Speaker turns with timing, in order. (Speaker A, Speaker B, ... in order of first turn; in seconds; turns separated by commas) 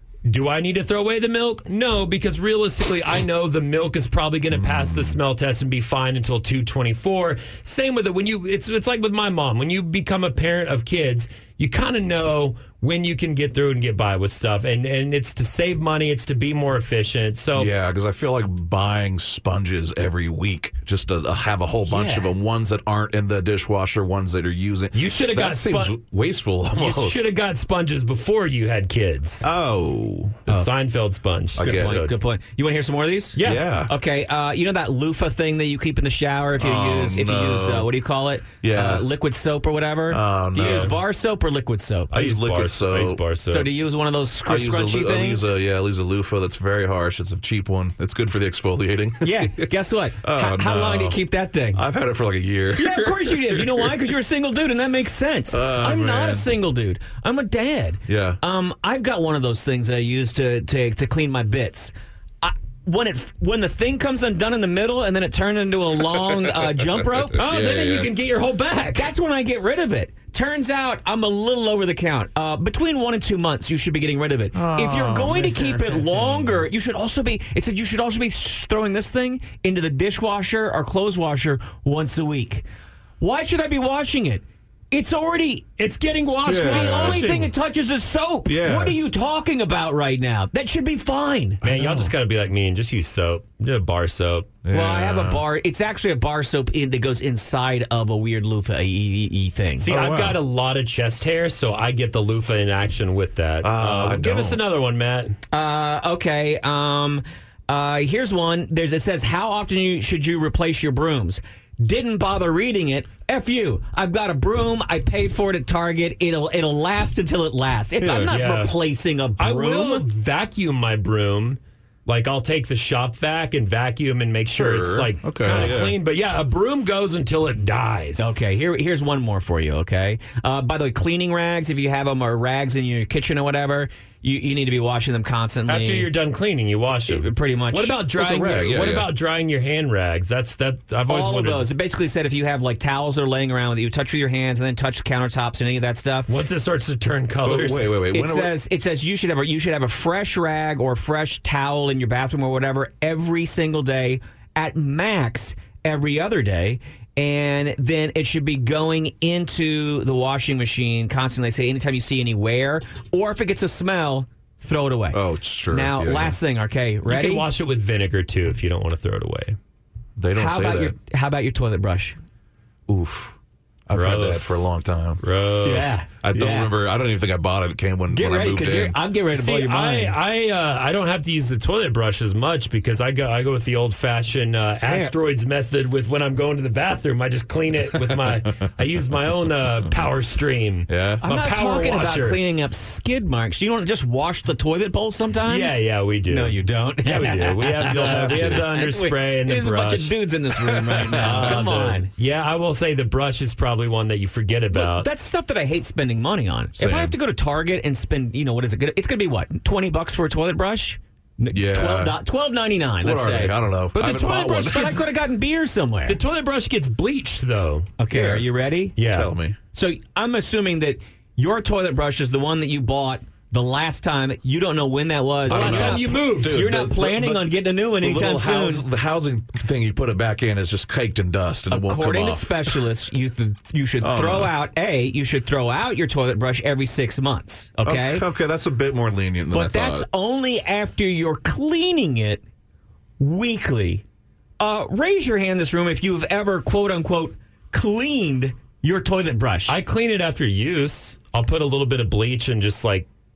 Speaker A: 0.3-17.7, Speaker B: 4.5-5.2, Speaker B: 17.6-27.3, Speaker C: 21.9-22.3, Speaker A: 24.9-26.0, Speaker A: 26.8-29.5, Speaker B: 29.4-30.6, Speaker A: 30.5-32.1, Speaker B: 31.6-32.0, Speaker C: 31.6-42.1, Speaker A: 33.4-33.6, Speaker B: 33.4-33.9, Speaker B: 36.6-37.9, Speaker B: 38.6-39.1, Speaker B: 40.1-41.0, Speaker A: 40.6-40.9, Speaker B: 42.1-43.2, Speaker A: 42.1-43.7, Speaker C: 43.5-45.5, Speaker B: 44.5-49.6, Speaker C: 49.2-51.8, Speaker B: 50.2-51.2, Speaker B: 51.7-54.1, Speaker C: 52.8-67.4, Speaker B: 55.5-56.5, Speaker B: 58.1-58.4, Speaker B: 67.3-68.1, Speaker A: 67.4-69.1, Speaker C: 69.0-82.7, Speaker B: 74.5-76.5, Speaker C: 83.2-85.7, Speaker A: 85.8-87.5, Speaker B: 86.5-87.3, Speaker C: 86.5-91.6, Speaker B: 88.5-89.0, Speaker B: 91.6-92.1, Speaker A: 91.6-94.5, Speaker B: 94.6-95.4, Speaker C: 94.7-99.9, Speaker B: 99.8-100.4, Speaker A: 99.8-105.4, Speaker B: 103.6-104.6, Speaker C: 105.5-120.1, Speaker B: 118.0-118.3, Speaker A: 118.3-118.8, Speaker A: 119.4-128.3, Speaker B: 124.5-126.0, Speaker C: 128.2-136.1, Speaker A: 135.7-141.7, Speaker C: 137.1-138.0, Speaker B: 138.1-139.1, Speaker C: 141.1-146.3, Speaker A: 146.3-147.9, Speaker B: 147.4-148.5, Speaker C: 148.1-165.2, Speaker B: 165.1-166.4, Speaker C: 165.7-167.5, Speaker A: 167.1-169.6, Speaker B: 170.2-170.9, Speaker C: 170.4-172.2, Speaker B: 172.9-173.3, Speaker B: 173.9-175.2, Speaker A: 173.9-174.7, Speaker A: 175.2-176.0, Speaker C: 175.7-176.7, Speaker B: 176.2-179.0, Speaker C: 178.1-180.2, Speaker A: 179.3-192.4, Speaker B: 184.8-185.2, Speaker B: 188.1-188.4, Speaker B: 190.9-191.2, Speaker C: 191.2-202.1, Speaker A: 195.5-200.1, Speaker B: 197.8-198.7, Speaker B: 200.6-201.7, Speaker A: 201.2-205.1, Speaker C: 204.7-216.2, Speaker B: 206.8-207.2, Speaker B: 211.5-212.2, Speaker B: 213.0-215.1, Speaker A: 214.0-214.9, Speaker A: 216.1-217.9, Speaker C: 218.0-218.9, Speaker B: 218.1-219.6, Speaker A: 219.0-219.3, Speaker C: 219.7-228.9, Speaker B: 225.5-232.8, Speaker A: 225.5-226.7, Speaker C: 231.7-238.3, Speaker B: 234.0-234.6, Speaker B: 237.8-240.1, Speaker C: 239.5-242.4, Speaker C: 243.2-244.0, Speaker C: 244.6-249.8, Speaker A: 249.7-253.1